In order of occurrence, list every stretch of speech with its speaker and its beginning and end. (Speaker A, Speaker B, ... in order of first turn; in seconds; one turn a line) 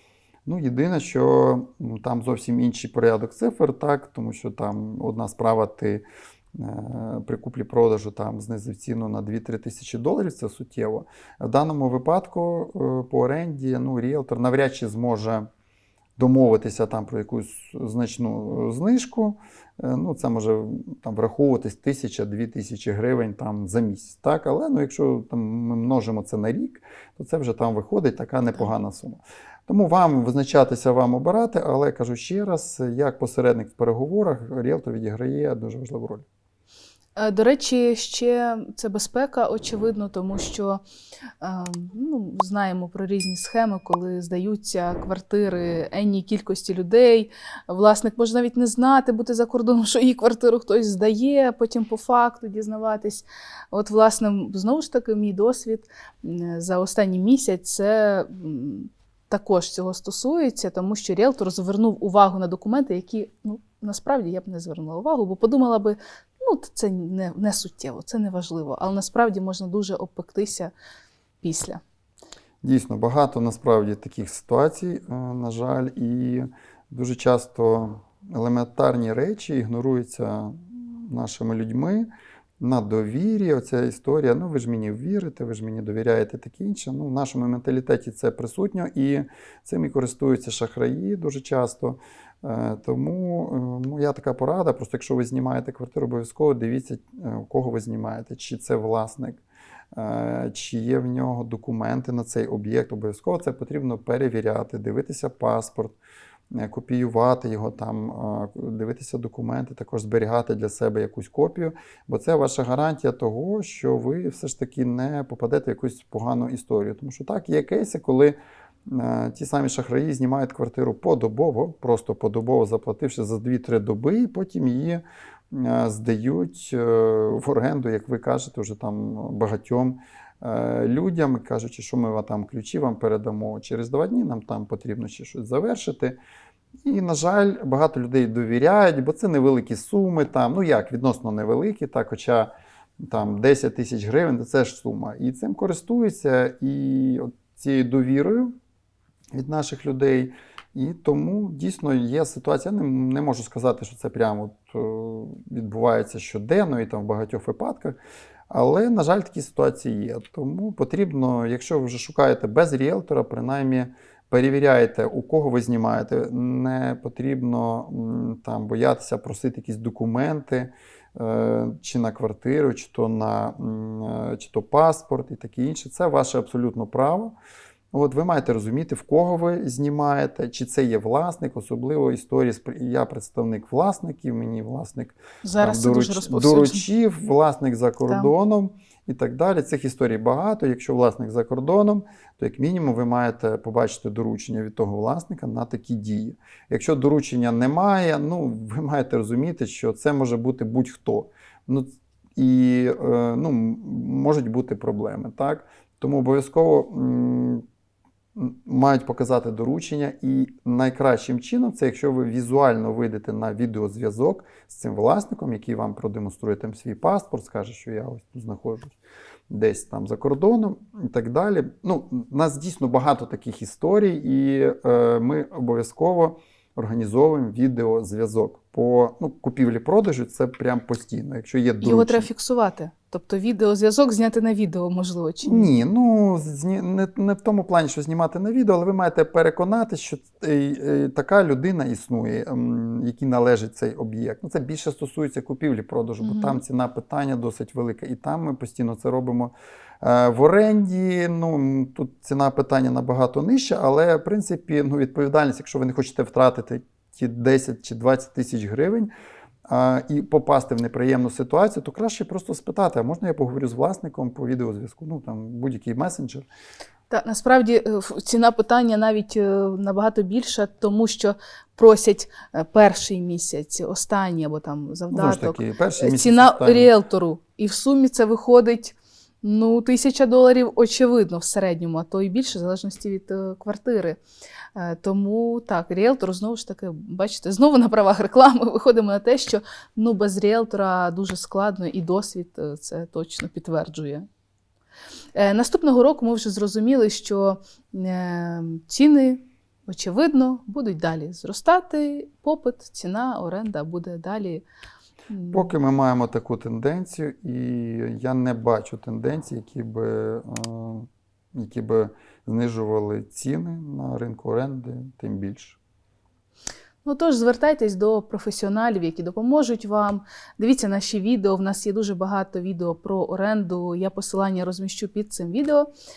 Speaker A: 0.5-15.5
Speaker A: 16.2-36.2
Speaker B: 37.1-40.8
Speaker B: 41.4-70.7
Speaker B: 71.4-71.8
Speaker A: 72.6-82.1
Speaker A: 82.6-99.4
Speaker A: 99.9-106.0
Speaker A: 106.5-118.4
Speaker A: 118.9-136.2
Speaker A: 136.8-142.5
Speaker A: 143.1-148.5
Speaker A: 149.3-158.0
Speaker A: 158.5-177.3
Speaker A: 177.9-207.6
Speaker B: 185.4-186.8
Speaker A: 208.3-219.0
Speaker A: 219.5-232.3
Speaker B: 231.8-235.7
Speaker A: 235.4-259.1
Speaker B: 246.2-246.6
Speaker A: 259.7-266.5
Speaker B: 267.1-284.2
Speaker A: 275.1-276.9
Speaker B: 284.8-294.2
Speaker B: 295.4-304.6
Speaker B: 305.3-305.7
Speaker A: 305.5-315.8
Speaker B: 317.0-325.9